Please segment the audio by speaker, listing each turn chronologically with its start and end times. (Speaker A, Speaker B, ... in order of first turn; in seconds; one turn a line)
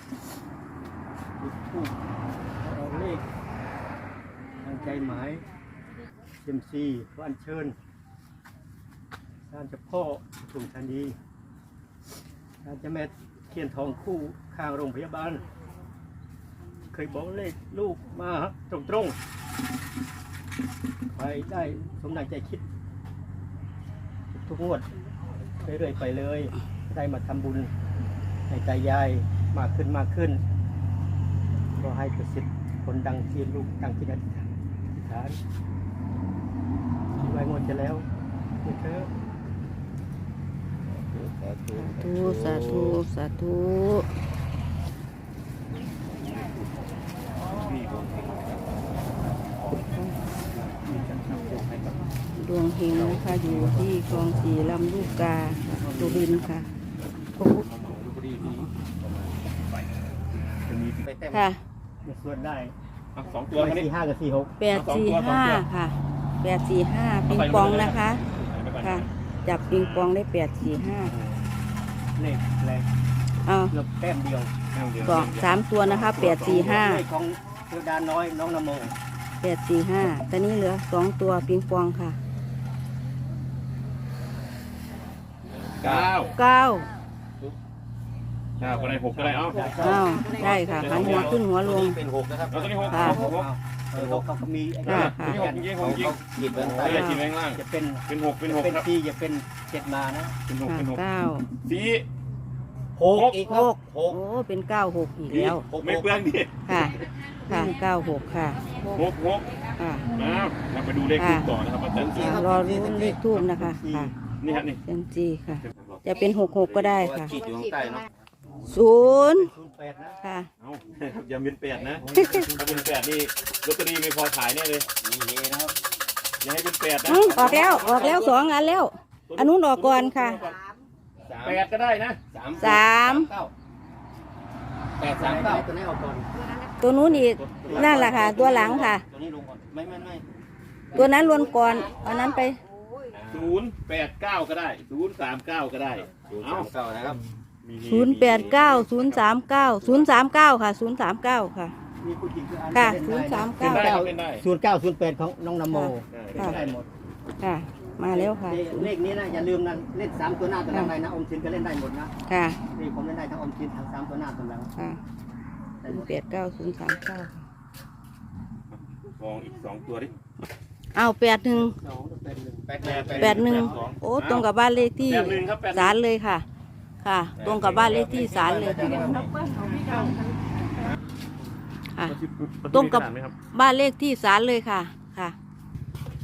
Speaker A: 1.4-2.0
Speaker A: 2.6-3.2
Speaker A: 4.6-5.4
Speaker A: 6.4-7.7
Speaker A: 9.5-11.2
Speaker A: 12.6-15.4
Speaker A: 16.9-19.1
Speaker A: 21.1-22.6
Speaker A: 24.3-24.9
Speaker A: 25.6-27.7
Speaker A: 28.5-30.4
Speaker A: 31.8-35.4
Speaker A: 37.2-38.0
Speaker A: 38.6-39.1
Speaker B: 40.9-42.9
Speaker C: 41.8-44.1
Speaker D: 46.2-46.8
Speaker D: 47.4-48.7
Speaker D: 49.6-49.9
Speaker D: 50.5-52.1
Speaker C: 52.3-56.7
Speaker D: 52.9-56.5
Speaker C: 57.4-57.6
Speaker D: 57.4-61.1
Speaker C: 58.4-58.7
Speaker B: 61.0-61.5
Speaker C: 61.3-61.6
Speaker A: 62.0-62.7
Speaker D: 63.1-63.9
Speaker A: 63.5-64.5
Speaker C: 64.6-68.2
Speaker D: 64.7-65.6
Speaker D: 67.2-70.1
Speaker C: 68.8-71.1
Speaker A: 72.2-72.9
Speaker C: 73.4-73.7
Speaker A: 73.7-74.5
Speaker D: 74.7-76.8
Speaker C: 75.0-77.0
Speaker A: 76.2-78.9
Speaker C: 79.4-82.2
Speaker B: 85.6-86.3
Speaker D: 85.7-86.3
Speaker C: 86.3-86.9
Speaker D: 88.6-89.7
Speaker A: 88.6-90.1
Speaker B: 89.5-93.3
Speaker C: 89.8-92.0
Speaker D: 90.4-91.5
Speaker D: 92.5-93.5
Speaker C: 92.9-93.2
Speaker A: 93.1-95.8
Speaker B: 94.0-94.2
Speaker C: 94.8-95.4
Speaker D: 94.9-98.9
Speaker B: 95.2-97.0
Speaker A: 96.4-100.3
Speaker C: 96.8-97.2
Speaker D: 100.5-101.0
Speaker C: 100.7-101.5
Speaker D: 101.6-102.1
Speaker A: 103.0-103.4
Speaker D: 103.1-103.6
Speaker B: 103.3-104.2
Speaker C: 103.5-105.6
Speaker B: 105.3-106.2
Speaker D: 105.3-106.9
Speaker C: 106.7-108.7
Speaker D: 108.8-112.4
Speaker C: 109.8-110.1
Speaker C: 111.2-111.5
Speaker B: 111.9-113.1
Speaker C: 112.1-114.1
Speaker A: 112.5-114.1
Speaker D: 114.4-114.8
Speaker C: 114.8-117.3
Speaker D: 115.7-116.9
Speaker B: 116.8-118.1
Speaker A: 118.5-120.2
Speaker C: 118.7-119.5
Speaker C: 120.2-120.5
Speaker D: 120.6-124.9
Speaker A: 122.0-122.9
Speaker C: 122.2-122.4
Speaker B: 124.9-125.8
Speaker D: 126.4-128.4
Speaker C: 127.0-130.4
Speaker B: 127.2-128.2
Speaker D: 129.3-130.6
Speaker B: 131.2-131.6
Speaker D: 131.4-132.2
Speaker B: 132.3-133.5
Speaker C: 132.6-133.3
Speaker B: 135.0-135.7
Speaker A: 135.0-136.3
Speaker C: 136.8-139.0
Speaker B: 137.1-140.2
Speaker A: 137.6-138.1
Speaker C: 140.9-142.6
Speaker B: 140.9-142.1
Speaker B: 143.1-143.6
Speaker D: 143.3-146.7
Speaker B: 146.2-147.2
Speaker D: 147.6-149.2
Speaker C: 147.8-151.7
Speaker A: 152.0-156.9
Speaker C: 152.7-153.9
Speaker D: 153.6-154.4
Speaker C: 155.7-156.6
Speaker D: 156.1-156.8
Speaker C: 157.4-158.9
Speaker A: 158.0-162.1
Speaker C: 162.3-162.6
Speaker A: 162.7-164.7
Speaker A: 165.8-166.2
Speaker C: 165.9-167.4
Speaker D: 168.7-170.1
Speaker C: 170.9-171.8
Speaker A: 171.5-173.8
Speaker B: 172.7-173.4
Speaker D: 172.8-174.5
Speaker C: 173.2-176.4
Speaker D: 175.0-176.0
Speaker C: 177.0-179.3
Speaker B: 177.4-179.3
Speaker D: 177.6-177.9
Speaker D: 182.1-183.3
Speaker C: 182.7-185.3